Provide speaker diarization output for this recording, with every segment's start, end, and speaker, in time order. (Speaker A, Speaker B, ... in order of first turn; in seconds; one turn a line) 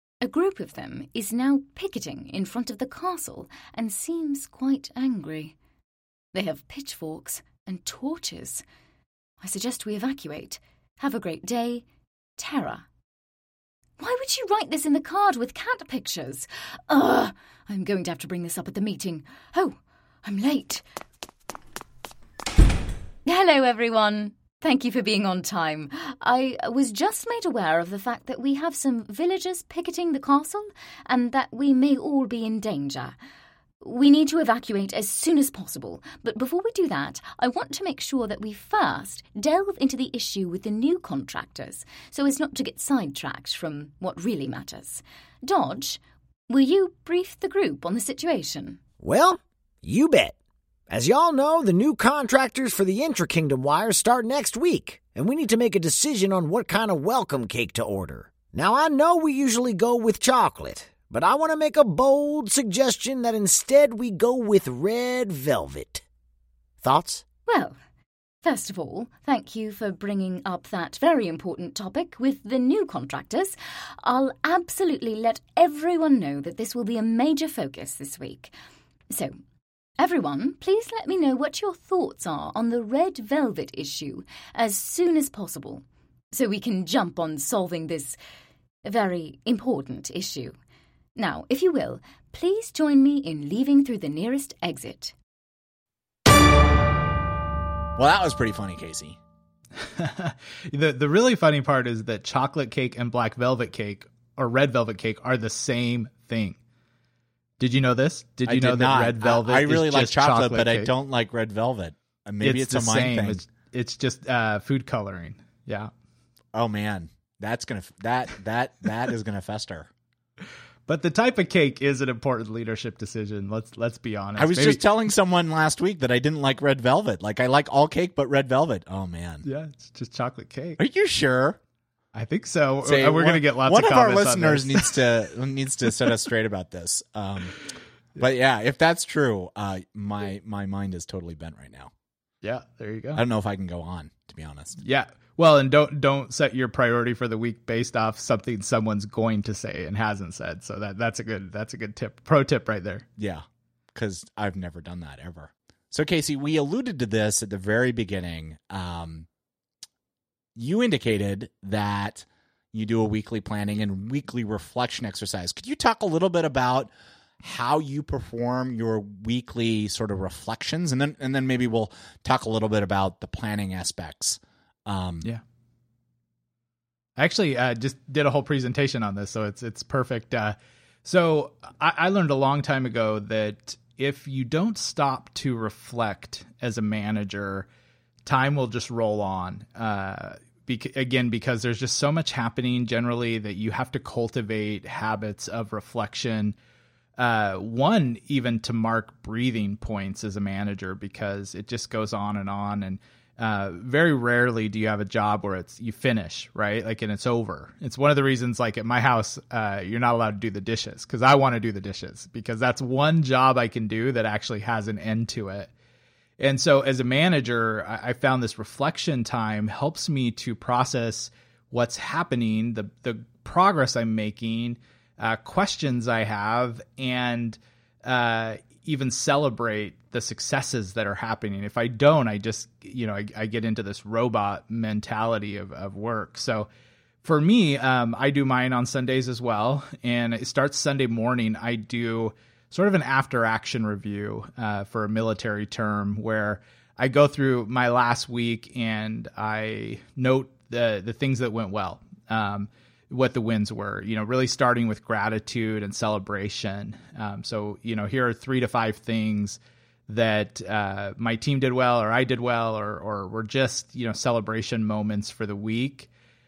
Speaker A: 0.2-5.6
Speaker A: 6.3-8.6
Speaker A: 9.4-11.8
Speaker A: 12.4-12.9
Speaker A: 14.0-20.8
Speaker A: 23.2-33.1
Speaker A: 33.8-48.8
Speaker B: 49.1-49.3
Speaker B: 49.9-50.3
Speaker B: 50.9-66.0
Speaker B: 66.8-67.2
Speaker A: 67.5-67.8
Speaker A: 68.4-78.5
Speaker A: 79.1-79.3
Speaker A: 80.0-88.2
Speaker A: 88.8-90.6
Speaker A: 91.2-95.2
Speaker C: 98.0-99.2
Speaker D: 99.8-106.6
Speaker D: 107.6-110.9
Speaker C: 108.5-113.4
Speaker D: 112.4-115.9
Speaker C: 116.5-119.9
Speaker D: 120.9-124.8
Speaker C: 124.4-129.4
Speaker D: 129.4-130.8
Speaker C: 130.8-131.6
Speaker D: 132.1-135.0
Speaker C: 132.8-137.6
Speaker C: 138.2-141.9
Speaker D: 142.4-143.2
Speaker C: 143.2-144.8
Speaker D: 144.8-153.1
Speaker C: 153.2-159.3
Speaker C: 160.6-166.9
Speaker C: 167.4-175.3
Speaker D: 177.2-187.7
Speaker D: 188.2-196.6
Speaker D: 197.2-215.7
Speaker D: 216.4-236.7
Speaker D: 237.2-266.1